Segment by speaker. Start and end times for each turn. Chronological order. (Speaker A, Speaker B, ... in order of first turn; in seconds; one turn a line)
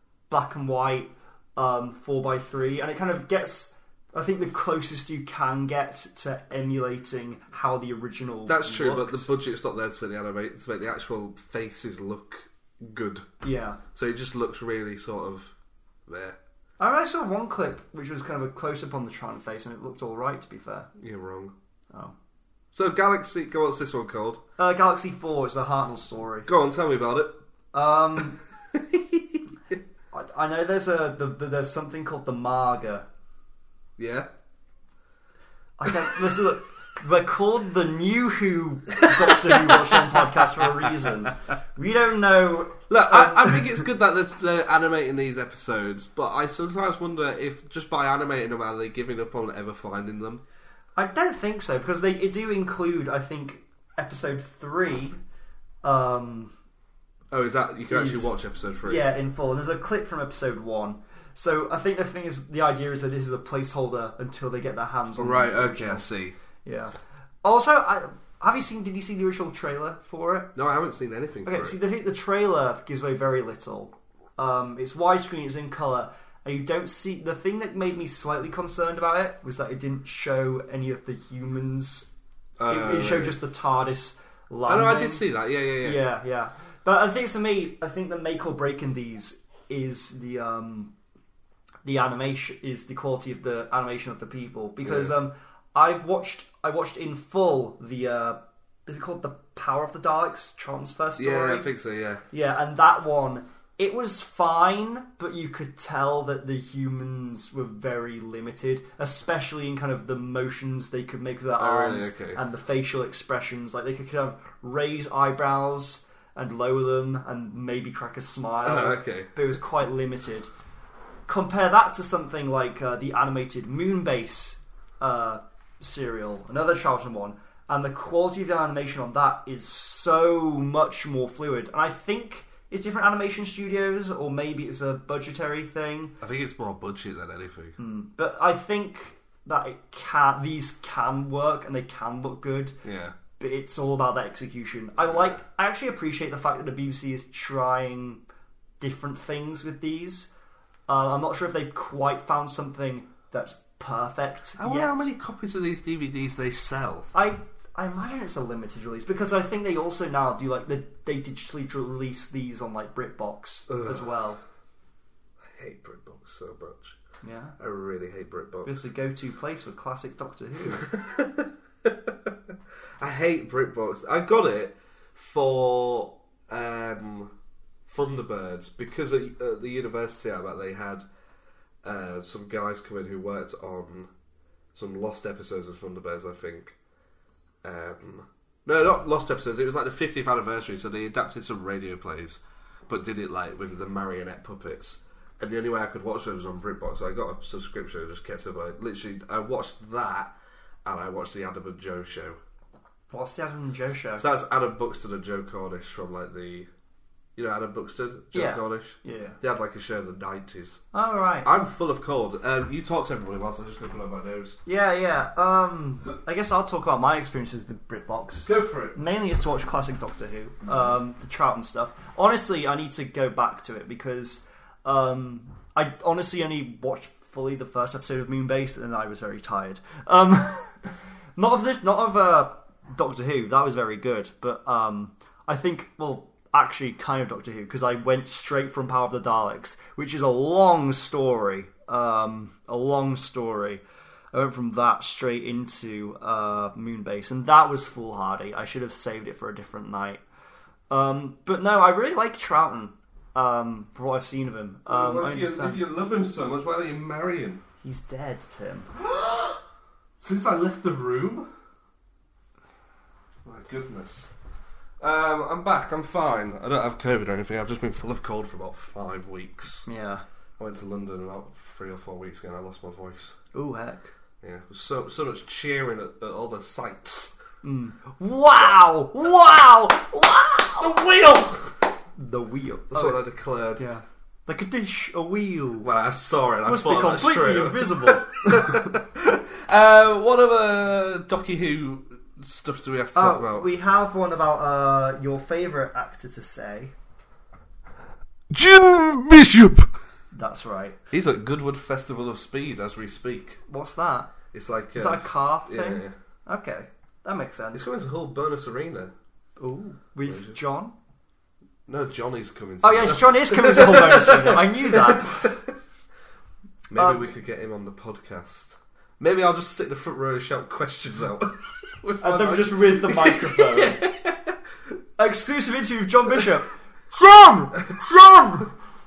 Speaker A: 0.3-9.3
Speaker B: 8.5-13.3
Speaker A: 13.4-13.8
Speaker B: 13.9-15.5
Speaker B: 16.1-16.4
Speaker A: 16.8-20.9
Speaker B: 21.0-21.5
Speaker B: 22.7-24.4
Speaker A: 24.6-26.5
Speaker B: 26.5-27.4
Speaker A: 27.7-28.4
Speaker B: 28.7-29.7
Speaker A: 30.1-33.1
Speaker B: 34.0-34.3
Speaker A: 35.8-43.6
Speaker B: 42.9-50.4
Speaker A: 51.0-55.2
Speaker A: 55.8-56.5
Speaker B: 57.3-59.1
Speaker A: 57.9-66.1
Speaker B: 65.1-66.4
Speaker A: 66.6-70.5
Speaker B: 70.5-71.8
Speaker A: 71.5-82.1
Speaker B: 82.6-83.4
Speaker A: 82.7-85.3
Speaker B: 84.7-86.0
Speaker A: 85.8-90.9
Speaker A: 91.8-101.7
Speaker B: 94.8-95.1
Speaker B: 101.2-102.2
Speaker A: 102.3-120.5
Speaker B: 111.6-112.4
Speaker B: 118.6-119.3
Speaker A: 121.3-136.2
Speaker B: 136.2-137.8
Speaker A: 137.8-142.8
Speaker B: 142.8-143.2
Speaker A: 143.4-148.2
Speaker A: 148.8-150.3
Speaker A: 150.9-155.1
Speaker B: 154.6-157.1
Speaker A: 157.1-164.4
Speaker B: 163.7-164.1
Speaker B: 165.4-167.0
Speaker A: 167.2-167.6
Speaker B: 167.6-168.9
Speaker A: 168.7-170.9
Speaker B: 170.8-172.3
Speaker B: 173.0-177.3
Speaker B: 177.9-181.1
Speaker B: 181.8-184.1
Speaker B: 184.7-186.8
Speaker B: 187.6-200.3
Speaker B: 200.8-202.4
Speaker A: 203.1-204.2
Speaker B: 204.2-206.7
Speaker B: 207.4-210.8
Speaker A: 208.3-209.4
Speaker A: 210.9-211.5
Speaker B: 211.4-214.6
Speaker A: 214.7-243.8
Speaker B: 218.4-219.0
Speaker A: 244.3-250.2
Speaker A: 250.9-255.8
Speaker B: 254.9-257.6
Speaker A: 257.8-258.9
Speaker B: 259.0-259.6
Speaker B: 260.2-261.5
Speaker B: 263.4-264.3
Speaker B: 265.0-269.9
Speaker A: 269.9-270.2
Speaker B: 270.6-273.4
Speaker A: 273.5-274.1
Speaker B: 274.4-277.4
Speaker A: 277.6-280.9
Speaker B: 280.8-281.8
Speaker A: 282.2-283.2
Speaker B: 282.9-283.9
Speaker A: 283.8-285.9
Speaker B: 285.8-293.8
Speaker A: 286.6-288.9
Speaker A: 293.1-296.9
Speaker B: 298.5-299.9
Speaker A: 300.3-301.0
Speaker B: 301.1-303.6
Speaker A: 303.7-304.3
Speaker B: 304.5-306.1
Speaker A: 304.9-307.8
Speaker B: 307.7-309.1
Speaker A: 309.6-310.9
Speaker B: 310.3-310.6
Speaker B: 311.9-315.7
Speaker A: 312.8-315.6
Speaker B: 316.9-324.6
Speaker A: 316.9-317.2
Speaker A: 322.2-324.0
Speaker A: 325.2-328.7